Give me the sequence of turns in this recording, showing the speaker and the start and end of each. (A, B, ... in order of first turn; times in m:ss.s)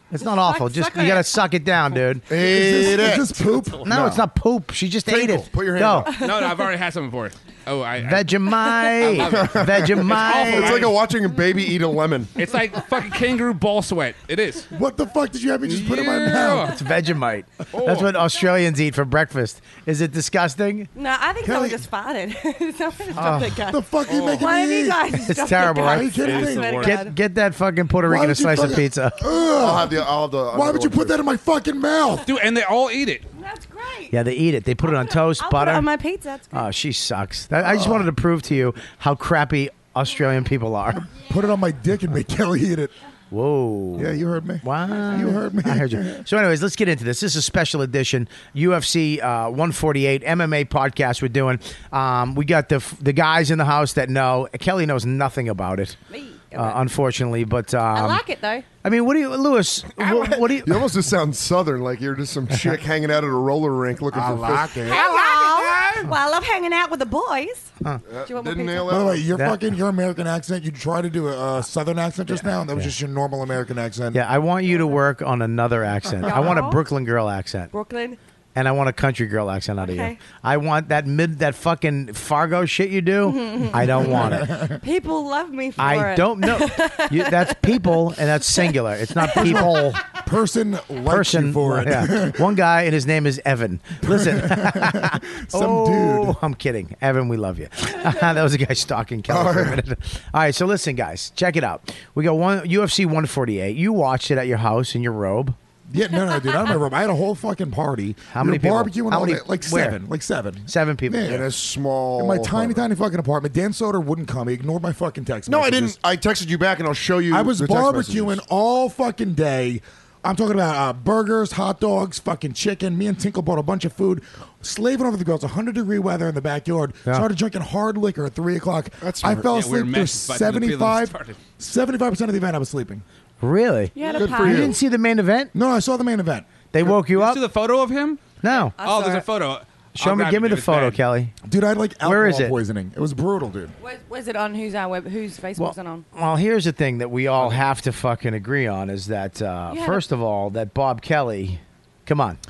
0:00.1-0:02.2 A
0:00.2-0:01.4 B
0:02.3-0:04.2 C
0:02.3-0:04.0 D
0:03.8-0:06.1 A
0:05.0-0:06.2 C
0:06.1-0:06.7 B
0:06.2-0:11.0 E
0:08.0-0:10.9 A
0:09.1-0:12.4 C
0:12.4-0:14.7 E
0:14.7-0:16.8 D
0:15.6-0:16.8 E
0:16.4-0:20.9 A
0:17.7-0:18.1 E
0:20.9-0:23.8 B
0:21.4-0:21.8 D
0:23.2-0:23.6 A
0:23.6-0:26.8 D
0:24.0-0:24.5 E
0:24.4-0:27.2 B
0:25.3-0:26.2 A
0:26.2-0:26.9 E
0:26.8-0:29.3 A
0:28.0-0:32.3 D
0:29.4-0:31.2 C
0:32.2-0:33.2 E
0:33.3-0:34.2 B
0:34.1-0:35.9 A
0:34.8-0:36.7 B
0:36.5-0:41.1 A
0:37.6-0:38.1 D
0:41.1-0:42.9 D
0:43.3-0:56.0 A
0:44.0-0:46.2 D
0:56.1-0:56.8 B
0:56.5-0:58.2 A
0:57.9-0:58.6 B
0:58.8-1:00.9 A
1:00.0-1:04.9 C
1:04.1-1:06.1 D
1:04.8-1:07.7 B
1:08.0-1:09.2 C
1:08.2-1:09.1 B
1:08.9-1:14.2 D
1:09.3-1:09.6 A
1:12.3-1:12.9 A
1:14.1-1:17.7 A
1:16.2-1:16.8 B
1:17.7-1:18.2 B
1:18.6-1:24.6 A
1:19.8-1:20.2 B
1:23.2-1:29.7 B
1:24.1-1:24.8 D
1:25.8-1:30.0 A
1:29.3-1:32.6 D
1:31.0-1:45.6 A
1:34.0-1:36.4 D
1:39.3-1:39.8 C
1:45.9-1:51.5 D
1:48.3-1:50.0 A
1:50.7-1:51.4 A
1:51.2-1:52.8 C
1:52.1-1:56.0 D
1:55.5-1:58.4 C
1:57.3-2:13.0 D
2:09.0-2:09.5 C
2:09.5-2:11.4 E
2:13.4-2:15.5 A
2:13.9-2:14.8 B
2:14.0-2:14.7 C
2:15.5-2:16.5 D
2:16.7-2:17.4 A
2:16.8-2:21.0 E
2:18.4-2:18.8 A
2:18.5-2:19.2 B
2:20.0-2:21.3 A
2:21.4-2:23.7 D
2:22.0-2:22.6 A
2:23.8-2:26.0 B
2:25.6-2:32.4 A
2:29.7-2:30.0 B